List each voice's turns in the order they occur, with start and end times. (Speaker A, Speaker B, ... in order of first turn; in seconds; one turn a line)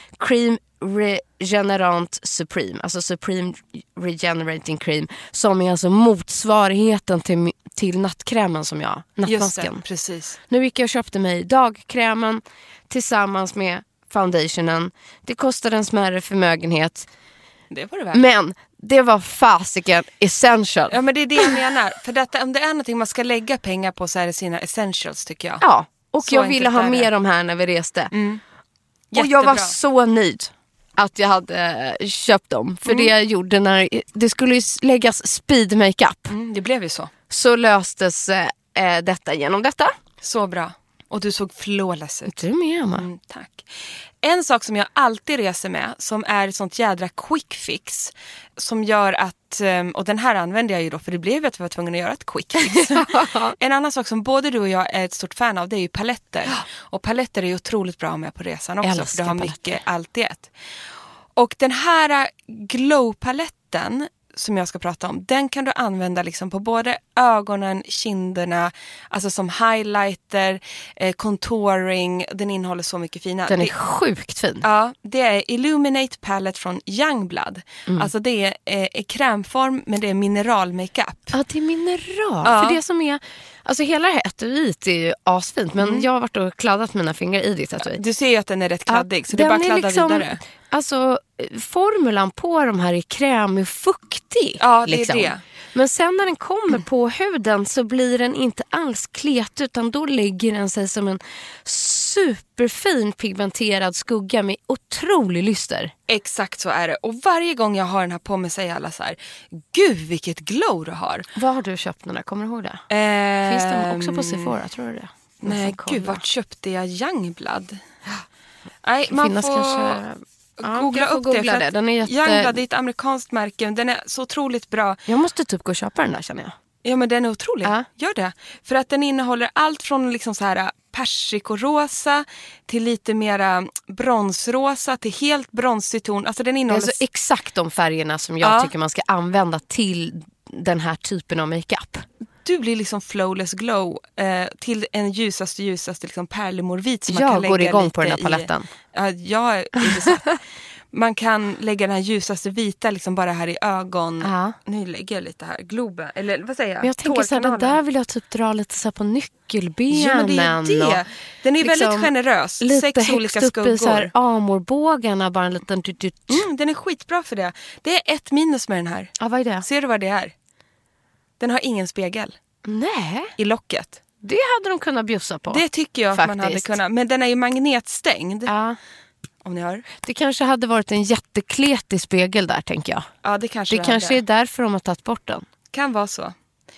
Speaker A: 0.2-9.8
Speaker B: 9.3-10.4
Speaker A: 10.5-17.1
Speaker B: 17.7-18.2
Speaker A: 18.1-21.5
Speaker B: 20.9-25.6
Speaker A: 25.6-28.1
Speaker B: 26.2-27.1
Speaker B: 28.1-28.4
Speaker B: 29.1-29.8
Speaker A: 29.1-36.4
Speaker B: 32.9-33.1
Speaker B: 36.3-37.1
Speaker A: 37.3-40.0
Speaker B: 40.2-42.4
Speaker A: 42.3-43.1
Speaker B: 43.0-43.7
Speaker B: 44.2-60.5
Speaker A: 52.6-53.6
Speaker A: 58.8-59.8
Speaker B: 61.4-73.7
Speaker A: 73.5-74.7
Speaker B: 74.6-81.3
Speaker A: 81.3-88.0
Speaker B: 82.4-82.8
Speaker B: 85.8-86.1
Speaker B: 87.8-90.4
Speaker A: 88.9-105.9
Speaker B: 94.6-95.4
Speaker B: 106.1-111.3
Speaker A: 111.4-112.8
Speaker B: 112.9-114.5
Speaker A: 113.4-116.2
Speaker B: 115.4-117.8
Speaker B: 118.8-120.0
Speaker A: 119.1-122.6
Speaker B: 120.6-125.0
Speaker A: 125.1-126.5
Speaker B: 126.8-137.0
Speaker A: 136.7-142.1
Speaker B: 138.4-138.7
Speaker B: 142.4-150.4
Speaker A: 147.1-148.7
Speaker A: 149.8-150.2
Speaker B: 150.9-157.8
Speaker A: 154.2-154.6
Speaker A: 156.8-161.0
Speaker B: 159.9-164.1
Speaker A: 161.6-166.5
Speaker B: 166.3-170.3
Speaker A: 169.2-169.7
Speaker B: 171.4-172.3
Speaker A: 172.7-173.3
Speaker B: 173.4-174.0
Speaker A: 174.2-176.7
Speaker B: 175.5-178.5
Speaker A: 178.5-178.8
Speaker B: 179.4-179.9
Speaker A: 180.0-183.1
Speaker B: 183.2-184.2
Speaker A: 183.7-185.5
Speaker B: 185.7-186.3